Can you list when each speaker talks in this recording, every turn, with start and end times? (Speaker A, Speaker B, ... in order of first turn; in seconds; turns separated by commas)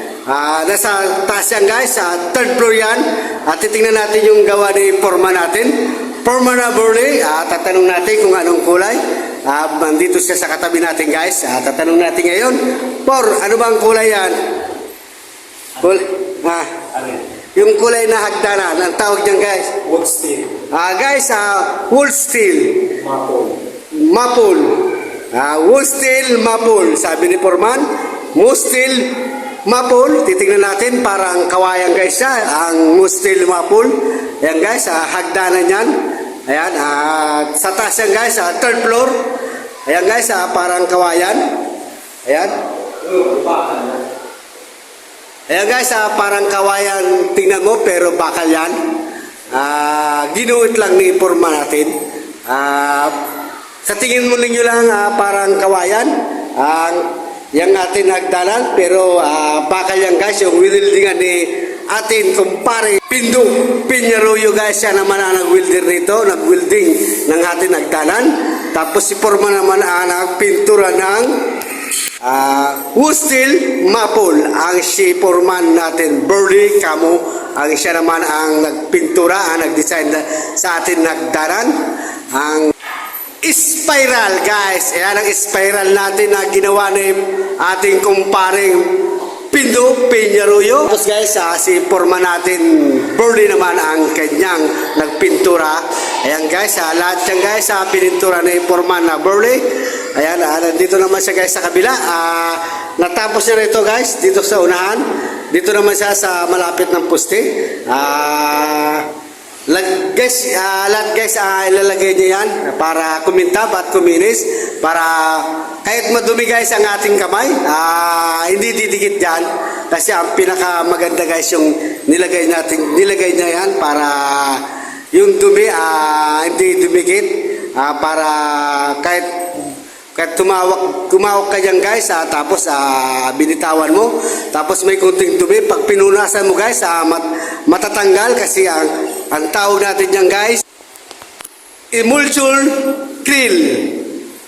Speaker A: 0.2-14.3, Speaker A: 15.8-19.8, Speaker B: 19.9-20.6, Speaker A: 20.7-23.0, Speaker B: 23.0-23.6, Speaker A: 23.9-29.1, Speaker A: 29.6-35.9, Speaker A: 36.5-39.1, Speaker A: 39.9-41.5, Speaker A: 42.3-42.5, Speaker B: 43.0-43.9, Speaker A: 45.5-48.8, Speaker A: 49.5-51.9, Speaker A: 52.5-53.2, Speaker A: 53.8-71.3, Speaker A: 72.2-81.7, Speaker A: 82.3-82.7, Speaker A: 83.4-99.6, Speaker A: 100.2-109.1, Speaker A: 109.7-140.6, Speaker A: 141.9-144.0